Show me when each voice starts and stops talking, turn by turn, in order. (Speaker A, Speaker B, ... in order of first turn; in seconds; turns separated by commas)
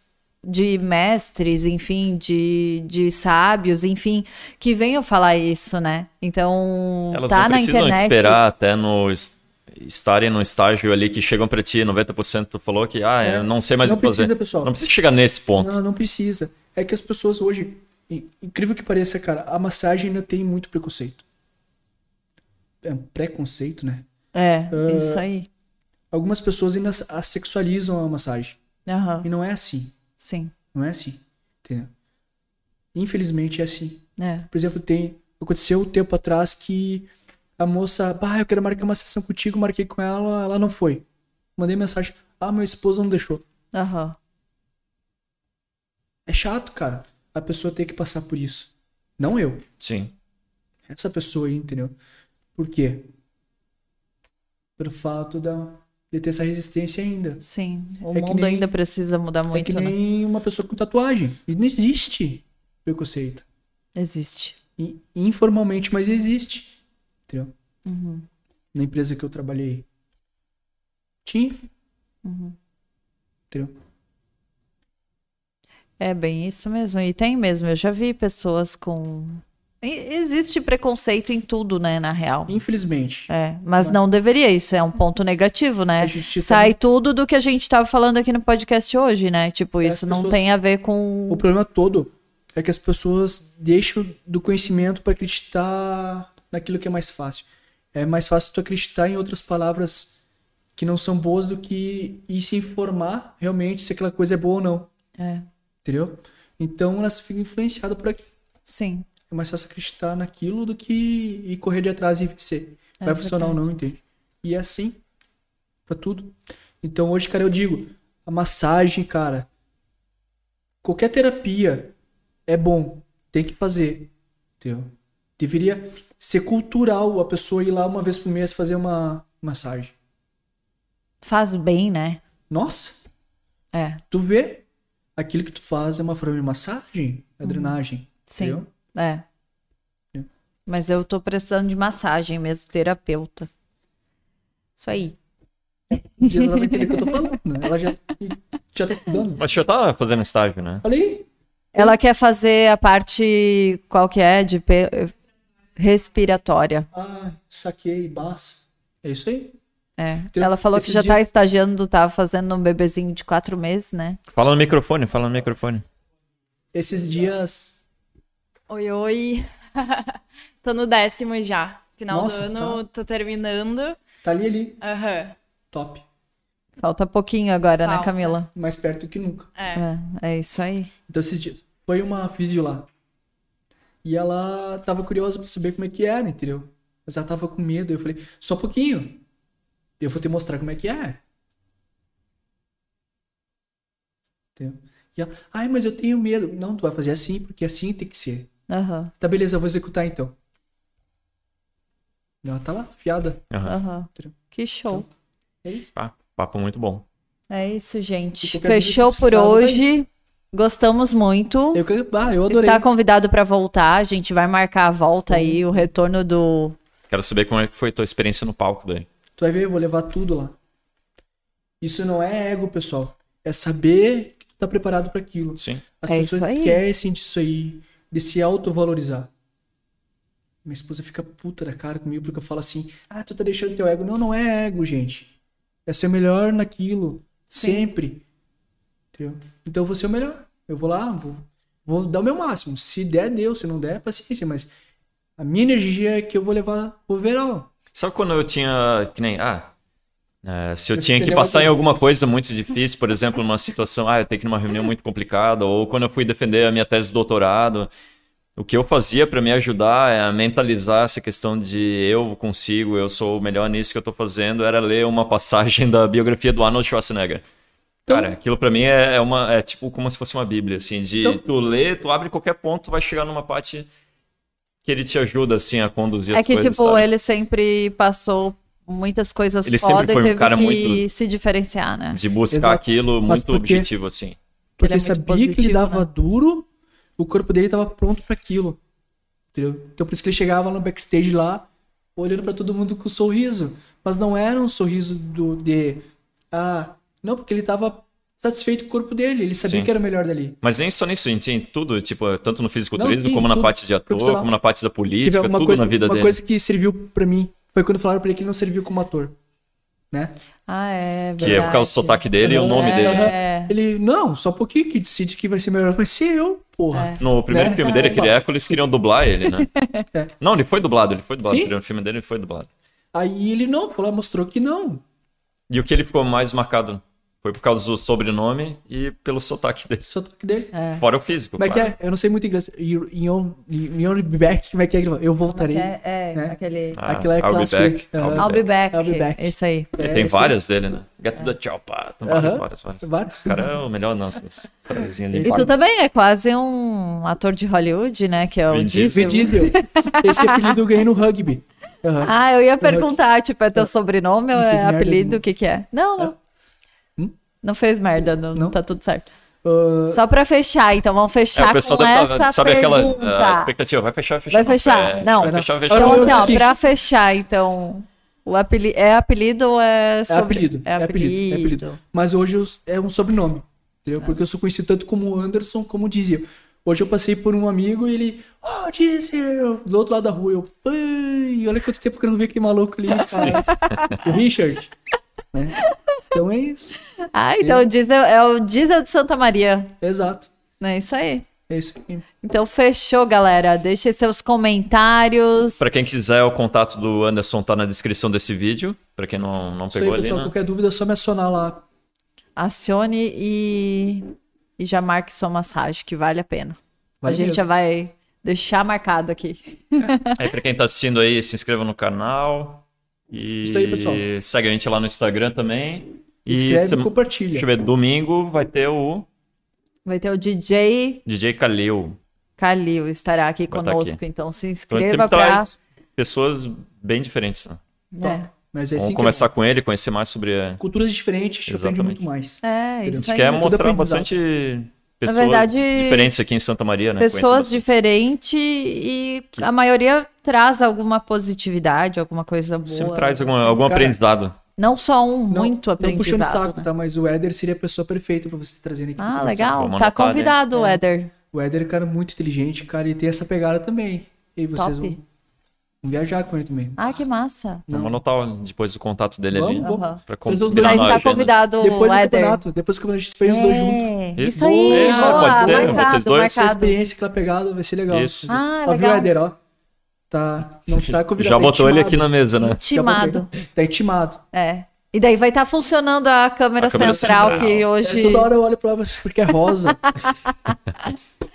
Speaker A: 0.4-8.4, Speaker B: 7.1-15.7, Speaker C: 13.2-14.7, Speaker C: 15.6-21.2, Speaker C: 22.8-24.1, Speaker A: 24.3-25.5, Speaker C: 24.7-25.3, Speaker C: 26.1-28.6, Speaker A: 28.9-29.3, Speaker C: 29.2-30.0, Speaker A: 30.2-30.5, Speaker C: 30.7-31.9, Speaker C: 32.9-41.0, Speaker A: 34.2-34.5, Speaker C: 41.6-43.4, Speaker A: 43.7-44.2, Speaker C: 46.3-49.6, Speaker B: 49.8-50.1, Speaker C: 50.9-52.0, Speaker C: 52.5-53.1, Speaker C: 54.8-57.4, Speaker A: 57.4-60.0, Speaker C: 58.1-58.7, Speaker C: 59.5-63.5, Speaker A: 64.0-64.6, Speaker C: 64.8-67.5, Speaker A: 67.9-68.3, Speaker C: 68.7-69.9, Speaker C: 71.2-71.7, Speaker A: 72.2-72.6, Speaker A: 76.0-82.6, Speaker C: 82.5-84.0, Speaker A: 83.3-91.5, Speaker C: 86.0-86.8, Speaker C: 89.8-90.5, Speaker C: 91.3-100.2, Speaker C: 100.8-104.9, Speaker A: 105.2-105.5, Speaker C: 105.8-108.3, Speaker A: 108.7-109.1, Speaker C: 109.3-115.0, Speaker A: 113.0-113.6, Speaker C: 115.9-119.5, Speaker C: 120.8-122.0, Speaker C: 122.5-129.9, Speaker A: 131.2-132.2, Speaker C: 132.5-133.0, Speaker A: 133.7-134.0, Speaker C: 134.1-134.7, Speaker C: 135.2-138.7, Speaker A: 137.4-139.2, Speaker A: 140.7-143.5, Speaker A: 144.8-145.2, Speaker C: 146.2-149.4, Speaker A: 146.2-147.4, Speaker B: 149.4-150.8, Speaker C: 150.8-152.0, Speaker A: 151.7-155.2, Speaker A: 155.8-156.9, Speaker C: 156.9-159.6, Speaker A: 160.0-164.2, Speaker C: 160.3-161.3, Speaker B: 164.3-165.8, Speaker C: 166.7-167.8, Speaker D: 168.7-174.0, Speaker C: 172.1-172.8, Speaker C: 174.2-174.8, Speaker D: 174.8-175.4, Speaker C: 175.7-176.1, Speaker A: 176.8-178.5, Speaker D: 177.8-178.3, Speaker C: 178.6-179.5, Speaker D: 179.6-179.8, Speaker A: 179.7-180.9, Speaker C: 181.1-182.9, Speaker C: 184.0-189.2, Speaker C: 190.0-191.2, Speaker C: 194.6-198.5, Speaker A: 198.7-199.1, Speaker C: 199.2-200.4, Speaker C: 202.4-203.5, Speaker B: 203.5-203.8, Speaker A: 203.7-205.1, Speaker C: 205.6-205.9, Speaker B: 206.0-207.1, Speaker A: 207.5-211.8, Speaker C: 208.4-209.9, Speaker C: 211.7-212.9, Speaker A: 212.5-216.8, Speaker C: 215.3-215.9, Speaker B: 217.1-219.1, Speaker C: 219.4-220.6, Speaker C: 221.8-229.3, Speaker B: 225.6-225.8, Speaker A: 226.1-226.8, Speaker C: 230.6-235.3, Speaker C: 235.9-238.3, Speaker A: 237.5-237.9, Speaker C: 239.1-244.7, Speaker C: 245.4-247.7, Speaker B: 247.9-249.7, Speaker B: 250.4-257.9, Speaker C: 250.9-251.8, Speaker B: 258.6-267.4, Speaker C: 268.1-268.3, Speaker B: 268.1-273.9, Speaker B: 274.9-277.1, Speaker A: 276.3-282.2, Speaker B: 279.6-281.1, Speaker B: 282.1-284.4, Speaker C: 282.5-283.9, Speaker A: 284.8-286.1, Speaker C: 284.8-288.8, Speaker C: 289.5-300.6, Speaker B: 299.6-299.9, Speaker B: 300.6-306.4, Speaker C: 303.0-304.5, Speaker C: 305.2-309.4, Speaker A: 310.7-313.7, Speaker C: 311.4-311.8, Speaker B: 311.4-313.4, Speaker C: 312.4-318.8, Speaker A: 316.9-318.3, Speaker B: 317.2-319.7, Speaker A: 319.6-320.0, Speaker B: 320.4-322.7, Speaker C: 321.4-321.7, Speaker C: 323.1-325.0, Speaker B: 325.7-330.0, Speaker C: 330.0-330.7, Speaker A: 330.7-331.0, Speaker B: 331.0-332.0, Speaker C: 331.6-340.6, Speaker A: 335.5-337.0, Speaker B: 336.9-338.6, Speaker A: 338.4-340.0, Speaker B: 340.0-345.7, Speaker C: 342.2-343.7, Speaker C: 345.3-345.7, Speaker A: 345.4-350.8, Speaker B: 348.7-349.6, Speaker C: 349.1-353.2, Speaker A: 352.2-356.4, Speaker C: 354.5-355.4, Speaker A: 357.6-359.3, Speaker C: 359.6-360.2, Speaker A: 360.1-363.7, Speaker B: 361.6-366.6, Speaker A: 364.5-372.0, Speaker C: 365.4-366.7, Speaker C: 370.3-384.9, Speaker A: 383.2-384.3, Speaker C: 385.5-385.8, Speaker C: 386.3-387.0, Speaker A: 387.3-389.9, Speaker C: 387.6-387.9, Speaker C: 390.0-390.5, Speaker A: 390.8-391.5, Speaker C: 391.7-392.3, Speaker A: 392.4-395.8, Speaker B: 395.8-400.5, Speaker C: 399.9-401.8, Speaker A: 402.6-410.4, Speaker C: 407.2-407.6, Speaker B: 410.4-419.3, Speaker C: 413.6-414.3, Speaker C: 416.5-417.7, Speaker A: 420.1-421.2, Speaker B: 421.3-422.2, Speaker A: 422.6-425.7, Speaker B: 423.7-424.2, Speaker B: 424.9-427.8, Speaker A: 428.1-428.5, Speaker C: 428.2-429.5, Speaker B: 429.0-430.8, Speaker C: 430.8-434.3, Speaker B: 431.7-432.2, Speaker A: 432.6-433.7, Speaker B: 433.1-437.9, Speaker A: 435.2-436.3, Speaker A: 437.2-443.7, Speaker B: 442.9-444.6, Speaker C: 443.7-444.2, Speaker A: 444.8-446.9, Speaker C: 445.5-449.9, Speaker A: 449.2-451.3, Speaker B: 449.7-450.6, Speaker C: 450.7-451.0, Speaker C: 451.5-455.2, Speaker A: 454.8-455.2, Speaker C: 456.0-457.2, Speaker A: 457.0-457.9, Speaker C: 457.9-458.2, Speaker B: 457.9-461.6, Speaker C: 459.5-469.6, Speaker A: 459.8-462.6, Speaker A: 463.4-467.0, Speaker B: 464.4-466.7, Speaker B: 468.1-468.5, Speaker A: 468.5-469.3, Speaker C: 470.3-474.4, Speaker B: 470.9-472.8, Speaker A: 472.6-473.5, Speaker A: 474.5-478.5, Speaker B: 476.8-477.9, Speaker C: 477.0-480.4, Speaker A: 480.7-481.1